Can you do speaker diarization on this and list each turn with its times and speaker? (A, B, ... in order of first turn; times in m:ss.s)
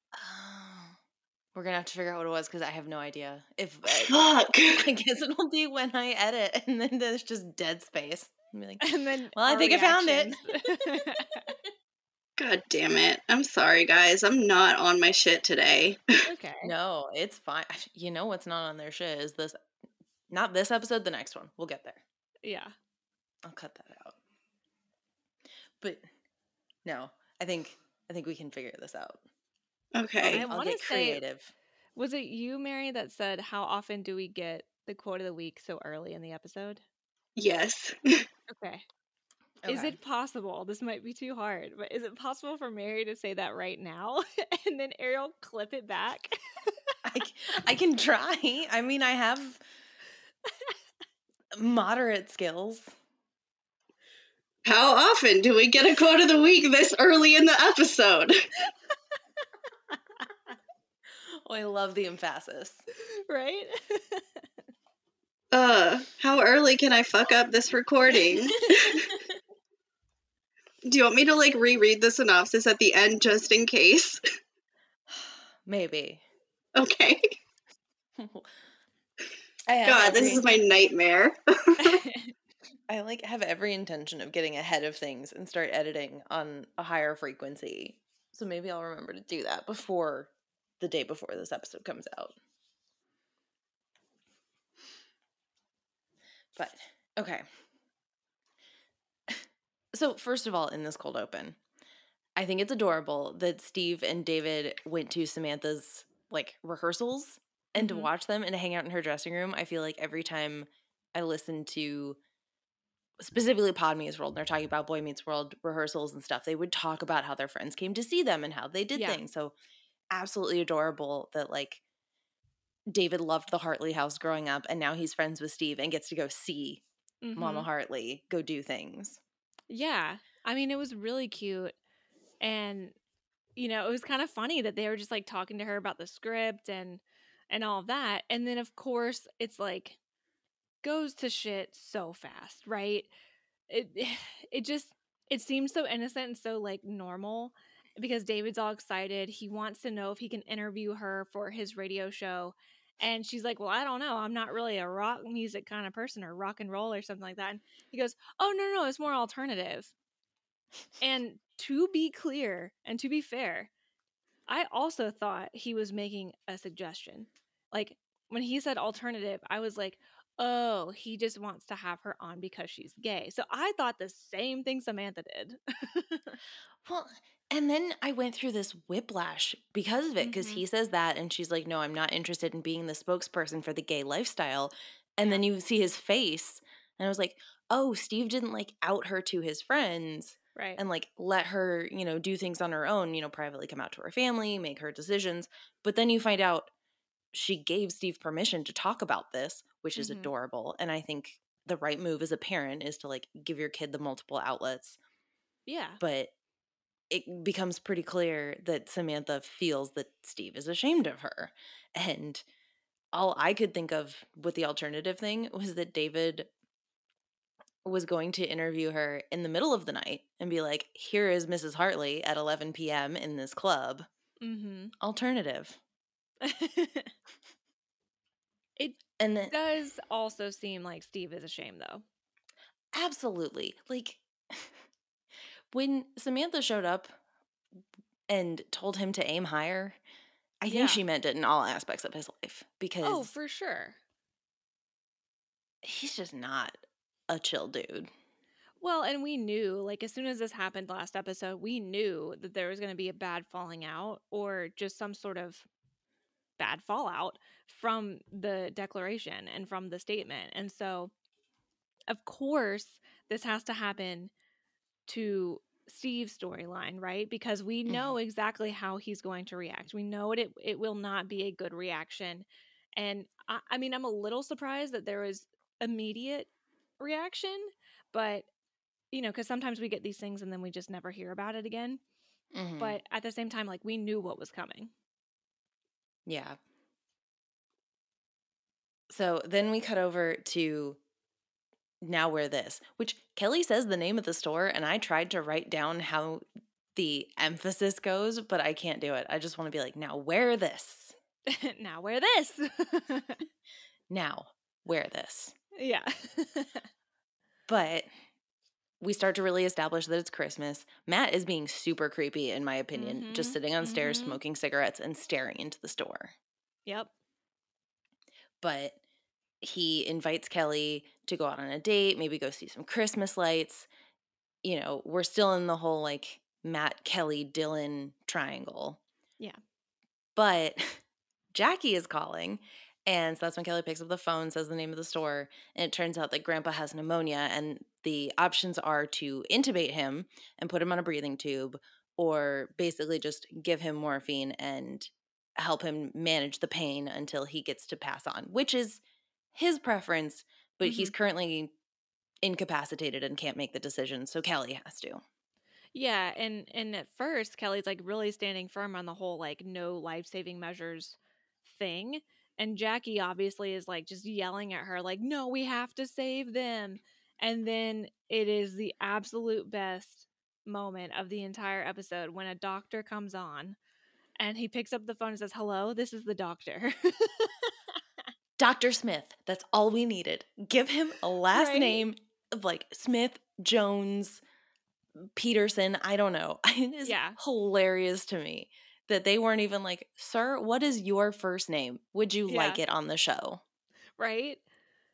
0:00.2-0:01.0 A
0:01.5-0:10.5 A
0:03.9-0:04.9 B
0:08.8-0:11.5 C
0:12.4-0:16.1 B
0:16.2-0:16.7 C
0:16.6-0:19.6 A
0:20.3-0:22.0 A
0:22.4-0:22.7 C
0:23.4-0:24.2 A
0:25.8-0:26.0 A
0:26.8-0:29.2 A
0:30.0-0:30.4 B
0:30.2-0:31.2 C
0:30.2-0:31.5 A
0:32.0-0:36.8 C
0:37.4-0:38.2 B
0:38.5-0:38.9 C
0:39.6-0:40.0 A
0:39.7-0:47.0 C
0:47.0-0:49.6 A
0:50.5-0:50.8 C
0:51.6-0:52.9 A
0:54.6-0:58.4 B
0:59.9-1:00.3 C
1:01.3-1:02.8 A
1:03.1-1:04.5 C
1:05.5-1:09.1 B
1:08.6-1:08.9 C
1:10.9-1:14.2 B
1:15.1-1:16.2 A
1:16.8-1:17.4 B
1:18.2-1:18.5 A
1:19.7-1:20.5 A
1:19.8-1:22.0 B
1:21.8-1:22.3 C
1:22.9-1:32.4 A
1:36.6-1:37.4 A
1:39.3-1:41.6 A
1:42.4-1:52.2 A
1:47.8-1:48.1 C
1:53.2-1:59.6 A
1:59.0-1:59.2 C
2:00.1-2:01.8 A
2:02.9-2:06.8 A
2:07.2-2:07.7 C
2:07.4-2:09.2 A
2:09.7-2:11.7 C
2:12.4-2:13.0 C
2:13.6-2:20.0 C
2:20.8-2:23.1 C
2:23.7-2:39.9 C
2:41.0-2:43.7 C
2:44.5-2:56.4 C
2:56.8-3:16.7 A
3:00.2-3:00.6 C
3:10.6-3:10.8 C
3:17.3-3:25.0 A
3:20.0-3:20.3 C
3:25.7-3:26.0 C
3:26.0-3:26.3 A
3:27.1-3:32.4 A
3:33.1-3:36.5 A
3:37.8-3:44.1 A
3:44.4-3:44.9 C
3:45.0-3:45.8 A
3:46.4-3:47.1 C
3:48.8-3:52.0 C
3:49.2-3:49.6 A
3:52.9-3:54.8 A
3:55.7-3:57.1 A
3:58.3-4:00.0 A
4:00.6-4:03.3 A
4:00.7-4:01.0 C
4:03.0-4:04.0 C
4:05.8-4:08.1 A
4:08.8-4:15.7 C
4:16.6-4:21.1 C
4:22.1-4:24.3 C
4:25.1-4:36.5 C
4:27.9-4:28.1 A
4:37.0-4:38.5 C
4:39.1-4:42.0 C
4:42.5-4:43.0 A
4:42.8-4:44.9 C
4:46.3-4:46.6 A
4:49.1-4:51.0 A
4:52.0-4:56.4 A
4:57.0-5:01.2 A
5:01.5-5:03.4 C
5:04.1-5:05.6 A
5:05.8-5:06.9 C
5:07.7-5:08.1 A
5:09.0-5:16.3 A
5:12.9-5:14.4 C
5:16.9-5:17.1 C
5:18.6-5:19.0 A
5:19.6-5:23.9 A
5:24.6-5:29.0 A
5:30.4-5:31.0 A
5:31.5-5:49.0 A
5:49.5-5:51.7 A
5:50.8-5:51.1 C
5:52.4-5:55.2 A
5:55.9-6:13.8 C
6:14.4-6:17.7 C
6:18.6-6:24.4 A
6:21.5-6:22.0 C
6:25.3-6:33.6 A
6:27.0-6:27.4 C
6:32.5-6:32.8 C
6:34.2-6:34.6 C